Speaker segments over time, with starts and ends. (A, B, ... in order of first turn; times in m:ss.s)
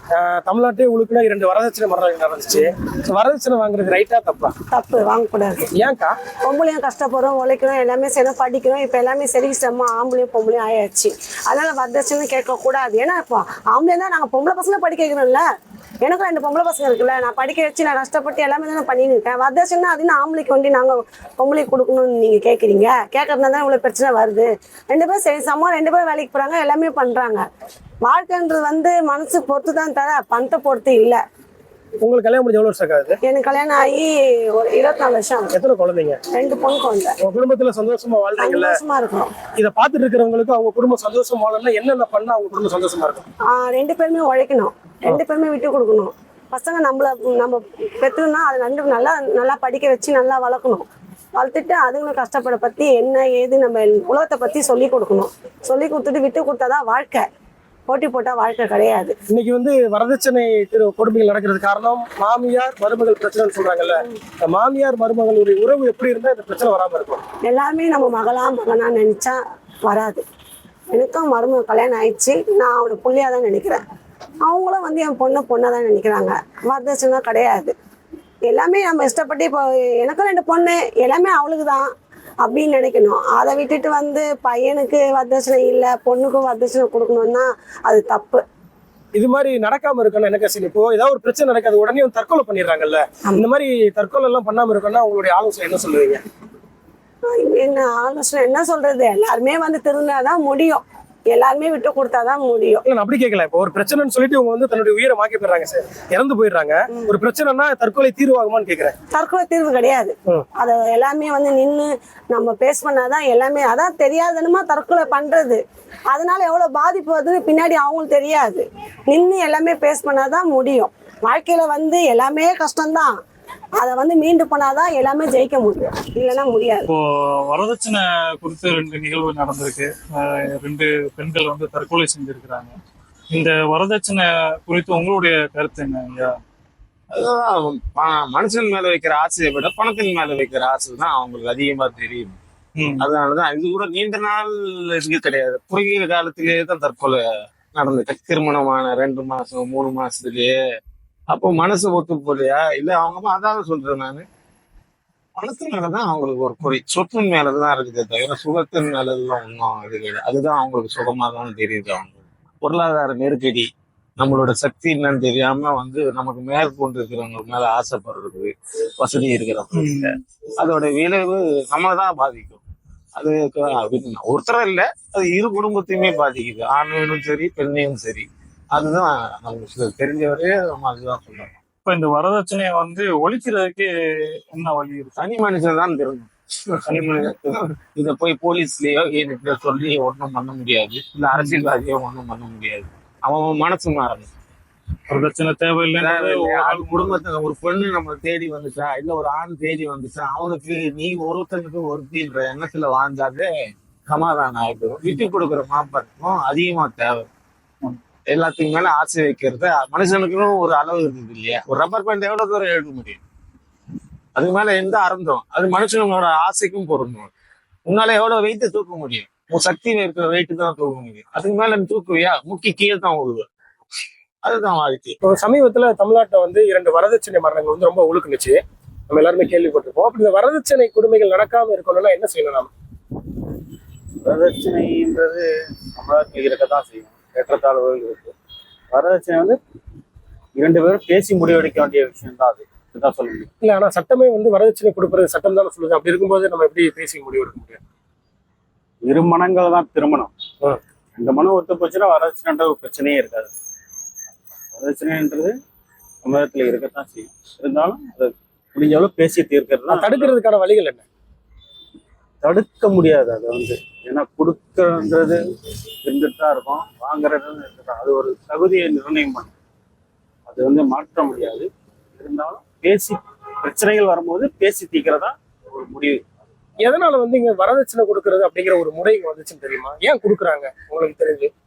0:00.1-0:04.5 A
0:04.7-0:05.7 B
0:05.8-0:06.2 A
0:06.4-0:15.5 B
0:16.0-0:27.4 B
0:28.0-0:31.2 B
0:32.0-0:33.2 A
0:33.3-0:35.5 B
0:35.5-0:36.2 A
0:36.3-0:37.2 B
0:37.2-0:38.8 A
0:38.4-0:39.4 B
0:39.6-0:43.2 A
0:43.5-0:57.3 B
0:57.9-0:59.2 B
0:59.3-1:07.2 A
1:07.4-1:10.2 B
1:10.9-1:13.8 B
1:14.4-1:17.7 B
1:18.5-1:21.9 B
1:22.4-1:28.4 B
1:29.1-1:36.2 A
1:37.3-1:42.8 B
1:42.8-1:49.0 A
1:49.1-2:03.2 B
2:03.8-2:06.9 B
2:06.9-2:12.7 C
2:13.3-2:16.3 C
2:17.1-2:22.4 D
2:22.8-2:23.1 C
2:23.0-2:30.6 D
2:31.3-2:34.2 D
2:35.4-2:52.6 D
2:49.8-2:50.1 C
2:53.2-3:01.5 D
3:01.8-3:05.2 C
3:05.2-3:14.3 D
3:06.9-3:07.3 C
3:11.3-3:11.7 C
3:15.1-3:17.2 C
3:16.0-3:27.3 D
3:28.3-3:33.2 D
3:34.4-3:37.3 D
3:37.9-3:43.5 D
3:44.4-3:45.2 D
3:45.2-3:52.7 A
3:54.3-3:58.3 E
3:58.9-3:59.6 E
4:00.6-4:03.5 E
4:03.6-4:07.8 A
4:09.1-4:10.3 E
4:11.2-4:13.5 E
4:14.8-4:15.5 E
4:16.2-4:20.3 E
4:19.9-4:21.0 A
4:22.4-4:25.4 E
4:26.0-4:29.5 E
4:30.5-4:36.2 E
4:36.8-4:41.5 A